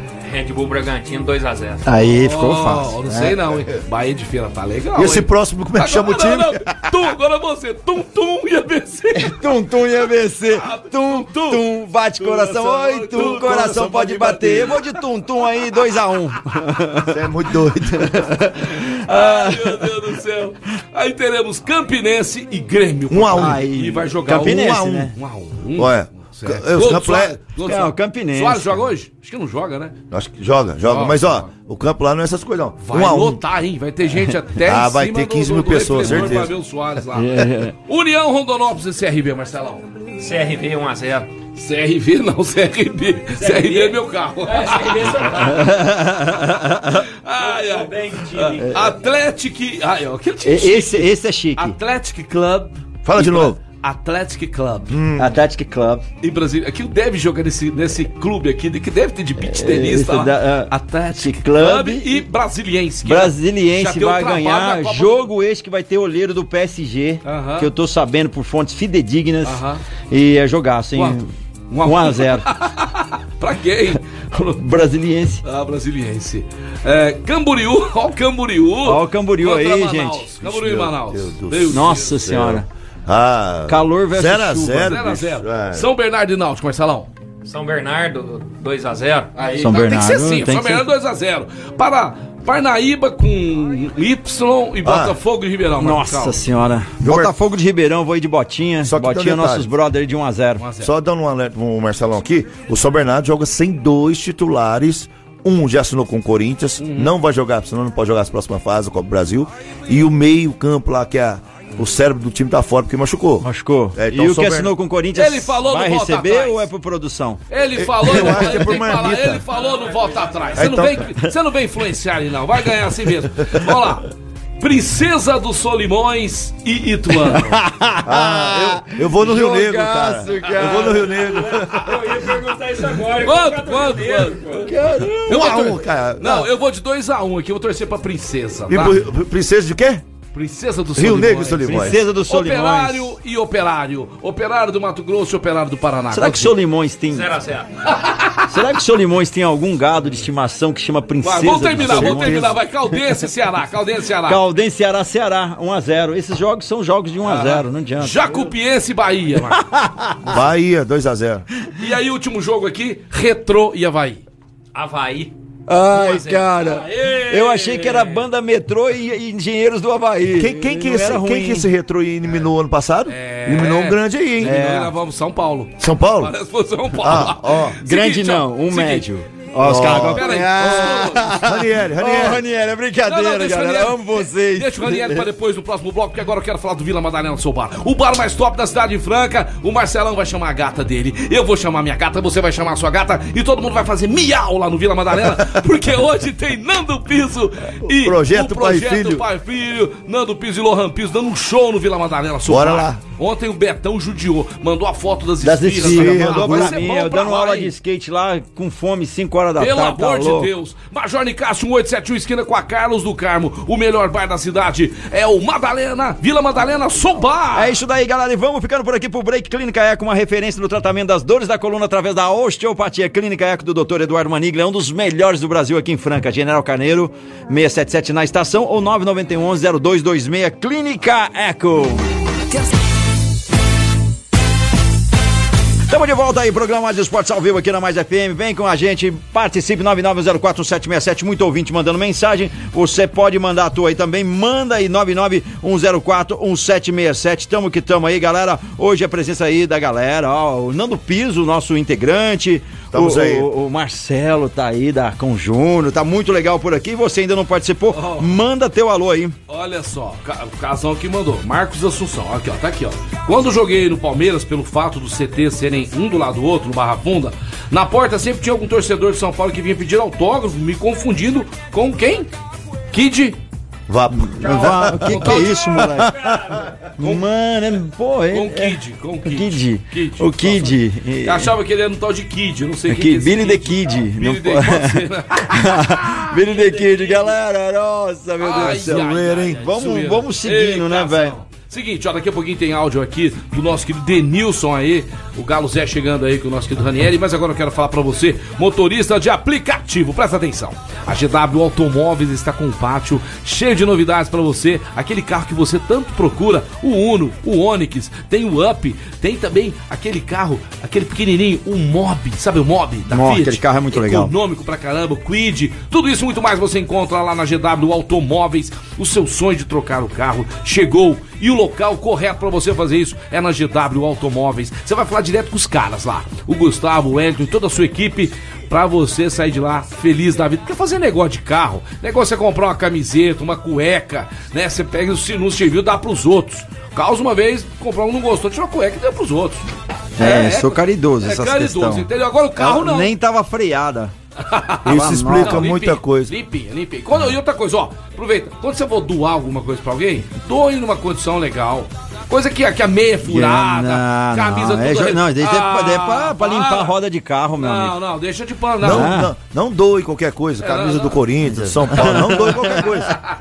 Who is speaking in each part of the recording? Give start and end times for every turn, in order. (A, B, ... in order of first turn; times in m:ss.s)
0:00.2-0:01.8 A
0:01.8-0:03.4 B
0:02.2-0:09.6 C
0:05.0-0:06.8 D
0:09.1-0:17.2 B
0:10.5-0:11.6 C
0:12.2-0:14.5 C
0:13.2-0:14.7 D
0:17.1-0:18.2 D
0:17.9-0:20.0 B
0:19.0-0:30.0 C
0:23.1-0:23.6 D
0:23.3-0:25.1 B
0:24.4-0:25.1 D
0:25.8-0:27.4 D
0:27.6-0:28.8 B
0:30.1-0:33.4 D
0:30.8-0:31.5 C
0:32.8-0:39.8 C
0:34.6-0:36.5 D
0:36.1-0:36.4 B
0:37.1-0:37.7 B
0:40.2-0:41.3 A
0:41.6-0:45.2 C
0:43.4-0:45.8 A
0:45.4-0:47.0 B
0:47.1-0:54.9 C
0:47.4-0:48.7 A
0:48.6-0:48.9 B
0:50.4-0:51.8 B
0:53.0-0:53.6 D
0:54.9-0:55.3 D
0:55.2-0:56.0 B
0:56.2-1:05.3 C
0:59.4-1:02.2 B
1:03.0-1:11.3 B
1:07.2-1:07.7 C
1:09.4-1:09.8 C
1:11.7-1:14.6 C
1:11.8-1:12.5 B
1:14.6-1:15.4 B
1:15.4-1:22.2 C
1:18.8-1:20.3 B
1:20.4-1:25.9 D
1:21.7-1:22.6 B
1:23.7-1:25.0 B
1:24.8-1:27.1 C
1:27.4-1:29.3 A
1:29.4-1:36.4 C
1:29.6-1:30.9 B
1:34.8-1:35.2 D
1:35.8-1:40.6 B
1:37.0-1:37.3 D
1:38.8-1:39.6 D
1:40.6-1:40.9 C
1:40.8-1:54.7 D
1:46.8-1:47.1 C
1:53.4-1:57.4 B
1:55.1-1:56.6 C
1:57.5-2:04.0 C
1:57.8-1:59.4 D
1:58.1-1:58.6 B
2:00.1-2:00.5 A
2:00.6-2:01.0 D
2:04.6-2:07.6 C
2:07.4-2:11.2 B
2:08.0-2:11.9 D
2:11.4-2:14.7 A
2:13.2-2:14.7 C
2:14.6-2:15.6 B
2:15.3-2:16.5 D
2:15.3-2:19.0 C
2:18.7-2:20.0 D
2:20.3-2:26.5 C
2:21.0-2:22.0 D
2:21.6-2:23.1 B
2:26.1-2:27.3 B
2:27.1-2:27.7 A
2:27.9-2:28.5 C
2:28.5-2:32.5 B
2:31.2-2:34.4 C
2:31.8-2:32.5 D
2:34.3-2:38.3 B
2:37.2-2:39.7 C
2:40.2-2:41.4 D
2:41.8-2:44.2 C
2:44.7-2:45.3 A
2:45.7-2:51.7 B
2:46.0-2:48.2 C
2:50.3-2:54.6 D
2:53.1-2:59.1 C
2:54.4-2:54.9 B
2:55.8-2:56.3 D
2:57.0-2:57.8 D
2:57.8-3:05.3 B
2:59.6-3:02.4 D
2:59.7-3:01.4 C
3:03.0-3:27.7 C
3:17.9-3:19.2 D
3:22.4-3:23.0 D
3:25.4-3:30.5 B
3:25.7-3:26.8 D
3:29.6-3:37.8 C
3:37.5-3:52.1 B
3:55.9-4:19.3 B
4:12.9-4:13.5 D
4:17.9-4:18.3 C
4:19.5-4:32.3 C
4:32.9-4:33.4 C
4:33.9-4:35.5 D
4:34.2-4:36.3 B
4:34.9-4:36.0 C
4:37.0-4:41.5 B
4:37.0-4:37.2 C
4:38.3-4:47.3 C
4:42.9-4:51.4 B
4:48.4-5:39.6 C
4:48.8-4:49.4 D
5:13.1-5:14.3 B
5:40.2-5:44.1 B
5:40.2-5:43.1 C
5:44.4-5:56.9 C
5:44.8-5:45.7 B
5:44.8-5:46.3 D
5:53.2-5:58.0 B
5:57.6-5:59.1 C
5:58.8-6:03.2 D
5:58.8-5:59.3 B
6:00.6-6:01.2 C
6:01.4-6:03.1 B